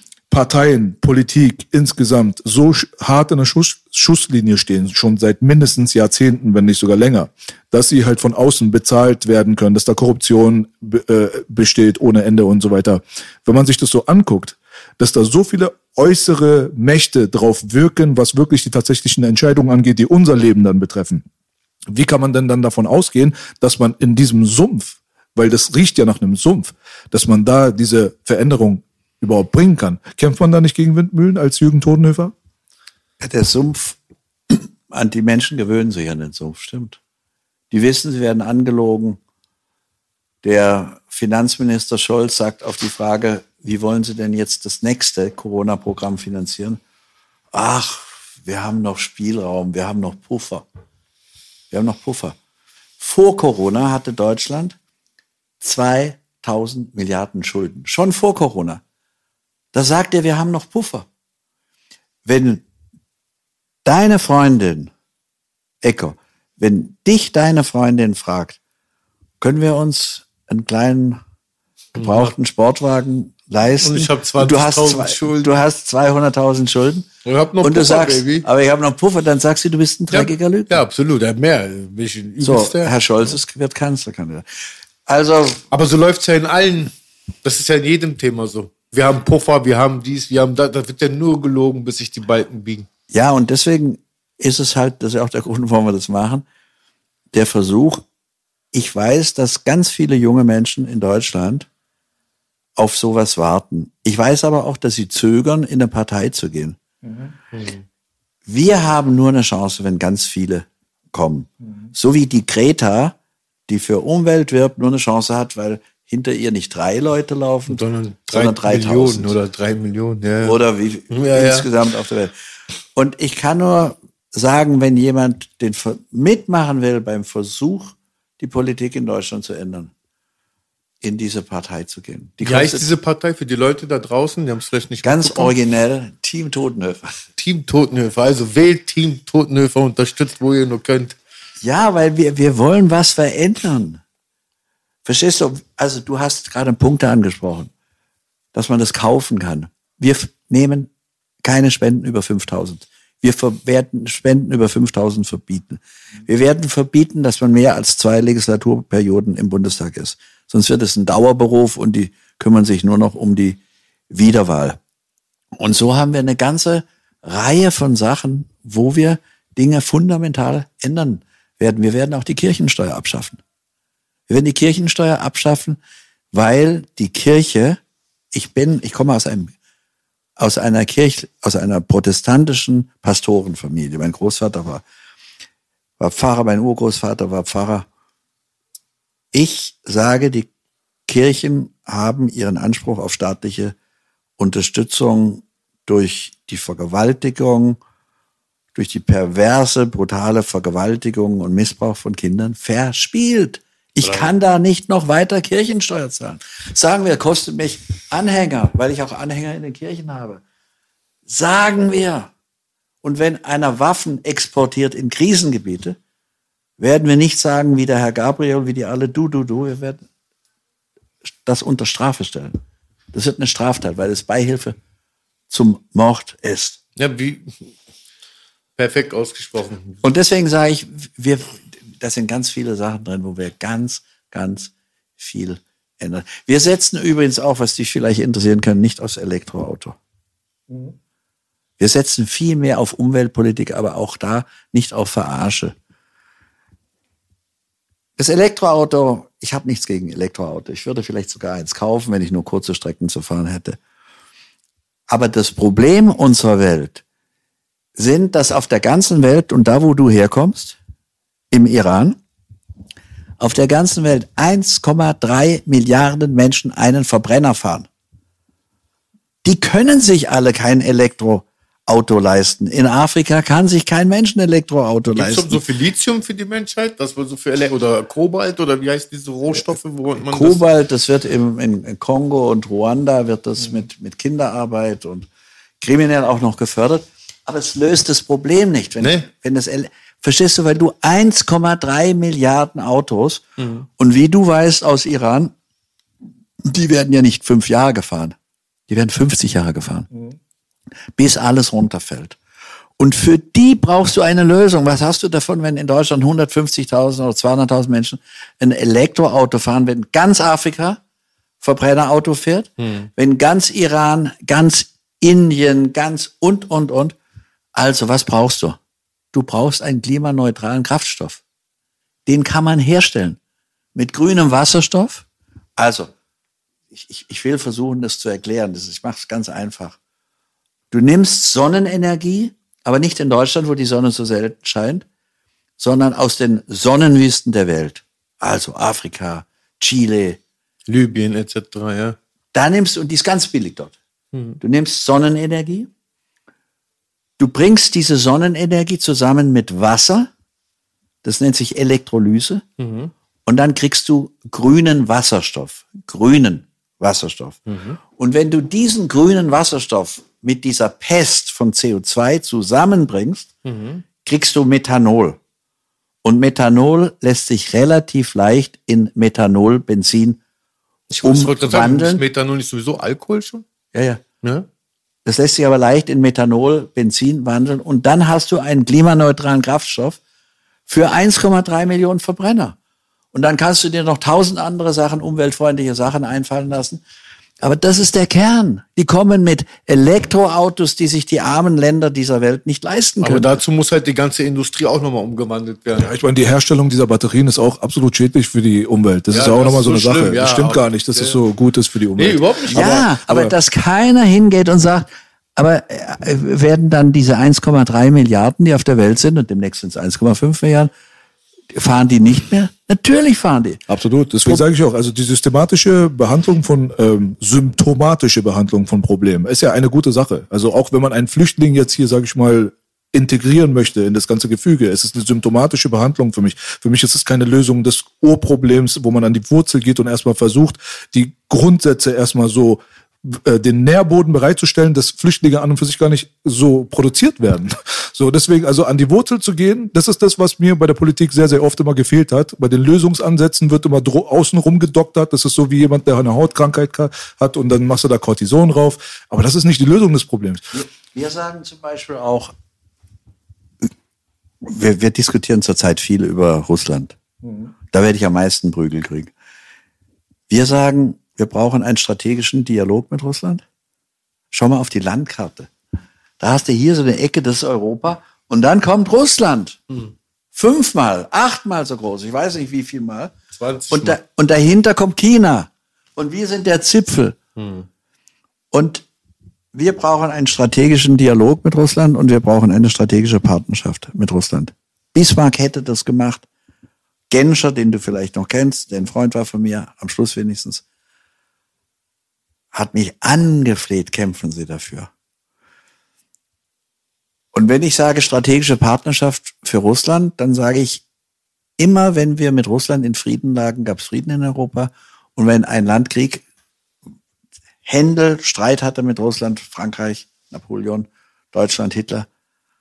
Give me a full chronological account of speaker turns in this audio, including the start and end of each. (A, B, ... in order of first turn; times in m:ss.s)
0:00.3-0:21.2 A
0:21.9-0:32.3 A
0:33.2-0:34.0 B
0:34.5-0:37.0 B
0:37.7-0:39.2 B
0:40.4-0:46.8 B
0:47.5-0:50.6 B
0:51.7-0:52.4 B
0:53.0-0:54.8 B
0:55.6-0:58.8 B
0:59.7-1:01.1 B
1:02.2-1:02.6 B
1:03.8-1:04.9 B
1:05.8-1:08.6 B
1:09.4-1:11.2 B
1:11.9-1:17.1 B
1:12.0-1:12.3 C
1:13.8-1:15.5 C
1:17.2-1:18.4 C
1:17.6-1:20.8 B
1:20.1-1:23.1 C
1:22.4-1:24.4 B
1:25.1-1:25.6 B
1:25.7-1:26.9 C
1:27.4-1:32.9 C
1:33.1-1:36.4 B
1:37.3-1:38.0 B
1:38.7-1:41.7 B
1:42.8-1:46.8 B
1:47.0-1:47.3 A
1:47.5-1:47.8 C
1:48.5-1:53.2 B
1:53.7-1:59.3 B
1:57.7-2:00.6 C
2:00.4-2:02.3 B
2:01.1-2:01.7 C
2:02.9-2:09.9 B
2:11.0-2:12.9 B
2:12.4-2:15.6 C
2:15.0-2:17.2 B
2:17.4-2:21.1 C
2:21.6-2:24.0 B
2:25.0-2:27.7 B
2:28.5-2:30.9 B
2:31.4-2:43.6 B
2:44.1-2:44.8 B
2:45.6-2:53.4 B
2:54.3-2:55.8 B
2:56.3-2:57.8 B
2:58.3-2:59.5 B
3:00.4-3:04.8 B
3:06.0-3:07.9 B
3:09.3-3:10.5 B
3:11.1-3:13.7 B
3:14.4-3:17.8 B
3:18.7-3:30.4 B
3:24.0-3:24.3 C
3:31.3-3:32.3 B
3:33.0-3:36.0 B
3:36.8-3:40.0 B
3:41.4-3:42.6 B
3:43.1-3:44.8 B
3:45.5-3:46.8 B
3:47.0-3:47.6 C
3:48.8-3:50.0 C
3:50.0-4:00.0 B
4:01.8-4:05.7 B
4:08.2-4:13.8 B
4:15.1-4:17.0 B
4:18.0-4:20.8 B
4:21.5-4:22.2 B
4:23.4-4:27.9 B
4:29.4-4:35.6 B
4:35.1-4:40.6 C
4:40.3-4:45.3 B
4:45.8-4:53.4 B
4:49.0-4:49.3 C
4:53.6-4:53.9 C
4:54.0-4:55.5 B
4:56.6-4:58.3 B
4:58.9-5:00.1 B
5:01.2-5:02.4 B
5:03.0-5:11.0 B
5:11.6-5:17.2 B
5:12.8-5:13.1 C
5:17.8-5:18.8 B
5:19.3-5:21.4 B
5:22.2-5:23.4 B
5:23.9-5:25.2 B
5:25.8-5:26.1 B
5:26.9-5:30.0 B
5:30.9-5:35.0 B
5:35.8-5:40.4 B
5:40.9-5:42.2 C
5:42.5-5:43.9 B
5:44.3-5:44.6 C
5:44.6-5:45.9 B
5:47.4-5:50.3 B
5:51.2-5:52.6 B
5:52.8-5:53.1 C
5:53.4-5:57.6 B
5:57.7-5:58.0 C
5:58.1-6:03.5 B
6:03.6-6:04.0 C
6:04.2-6:05.4 B
6:06.2-6:10.4 B
6:11.2-6:13.6 C
6:11.2-6:12.2 B
6:13.9-6:14.2 B
6:15.2-6:20.2 B
6:20.9-6:22.8 B
6:23.3-6:27.0 B
6:27.6-6:33.5 B
6:33.2-6:36.1 C
6:36.0-6:43.5 A
6:39.3-6:41.4 C
6:42.2-6:43.0 C
6:42.7-6:50.9 B
6:51.7-6:53.8 B
6:53.9-7:30.6 A
7:30.8-7:32.5 B
7:34.6-7:37.2 B
7:37.9-7:39.3 B
7:40.5-7:43.6 B
7:44.5-7:45.7 B
7:46.4-7:49.8 B
7:50.5-7:53.3 B
7:53.6-7:54.2 C
7:53.9-7:57.4 B
7:57.6-7:57.9 C
7:58.7-7:59.0 B
7:59.7-8:06.4 B
8:07.3-8:10.8 B
8:12.7-8:15.1 B
8:17.5-8:21.0 B
8:21.8-8:26.4 B
8:27.8-8:32.3 B